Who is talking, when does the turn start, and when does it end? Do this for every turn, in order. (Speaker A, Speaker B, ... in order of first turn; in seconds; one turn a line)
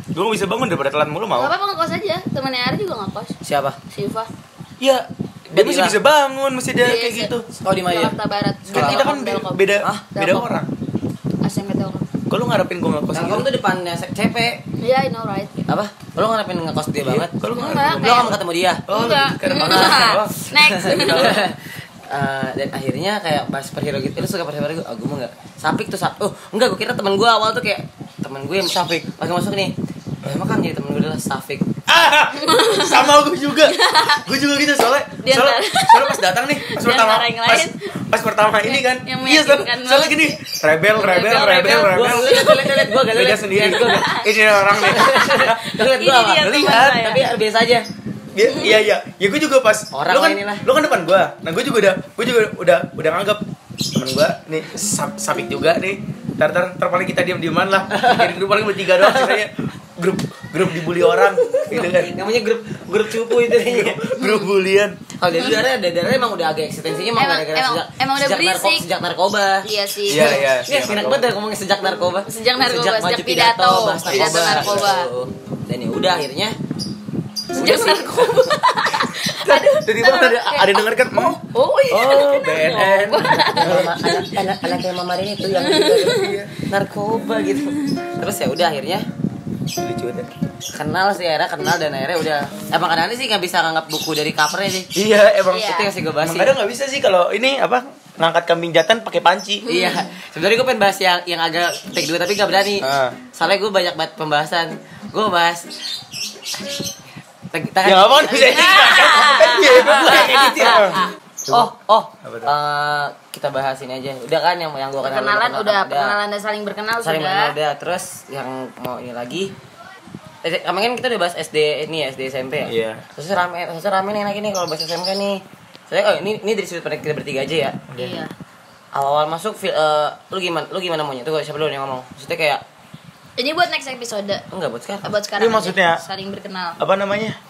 Speaker A: 0.1-1.5
Speaker B: 1.3-3.3
Speaker C: 3.4-3.8
Speaker B: 3.9-4.3
Speaker A: 4.8-7.5
Speaker C: 5.5-5.9
Speaker B: 6.8-7.3
Speaker C: 7.5-8.2
Speaker B: 7.8-10.5
Speaker C: 8.7-9.1
Speaker A: 8.7-10.7
Speaker B: 11.4-12.0
Speaker A: 12.3-13.5
Speaker C: 13.1-14.6
Speaker B: 14.8-15.6
Speaker C: 15.6-18.9
Speaker A: 17.0-21.4
Speaker B: 17.5-18.3
Speaker B: 18.9-21.4
Speaker C: 19.5-31.7
Speaker A: 31.9-45.6
Speaker B: 32.4-34.2
Speaker B: 35.2-37.7
Speaker B: 38.6-40.4
Speaker B: 40.9-42.9
Speaker C: 41.6-44.1
Speaker B: 43.6-47.3
Speaker C: 44.8-47.9
Speaker A: 46.4-47.1
Speaker A: 48.3-62.2
Speaker C: 49.9-50.6
Speaker C: 57.9-59.4
Speaker B: 61.1-61.7
Speaker C: 61.5-64.2
Speaker A: 63.1-65.0
Speaker C: 65.2-69.7
Speaker B: 67.2-68.8
Speaker B: 69.6-70.4
Speaker A: 70.0-71.3
Speaker C: 70.2-76.5
Speaker B: 72.3-75.1
Speaker A: 74.1-74.9
Speaker B: 77.5-84.3
Speaker C: 77.5-78.6
Speaker A: 79.3-84.1
Speaker C: 83.5-89.0
Speaker B: 85.5-86.4
Speaker A: 86.0-86.5
Speaker A: 89.8-90.3
Speaker C: 90.7-94.9
Speaker A: 94.9-99.6
Speaker B: 95.5-95.9
Speaker C: 95.5-96.5
Speaker B: 99.6-100.1
Speaker C: 99.7-105.7
Speaker A: 102.8-103.2
Speaker C: 107.5-116.2
Speaker A: 107.8-111.7
Speaker B: 108.5-111.1
Speaker A: 112.2-112.5
Speaker B: 115.0-117.5
Speaker C: 117.0-119.5
Speaker C: 120.4-127.8
Speaker A: 122.7-123.0
Speaker A: 127.9-128.2
Speaker B: 128.0-128.3
Speaker C: 128.9-132.6
Speaker B: 133.4-134.4
Speaker C: 134.5-135.1
Speaker B: 135.0-136.8
Speaker A: 135.3-136.0
Speaker A: 136.8-137.4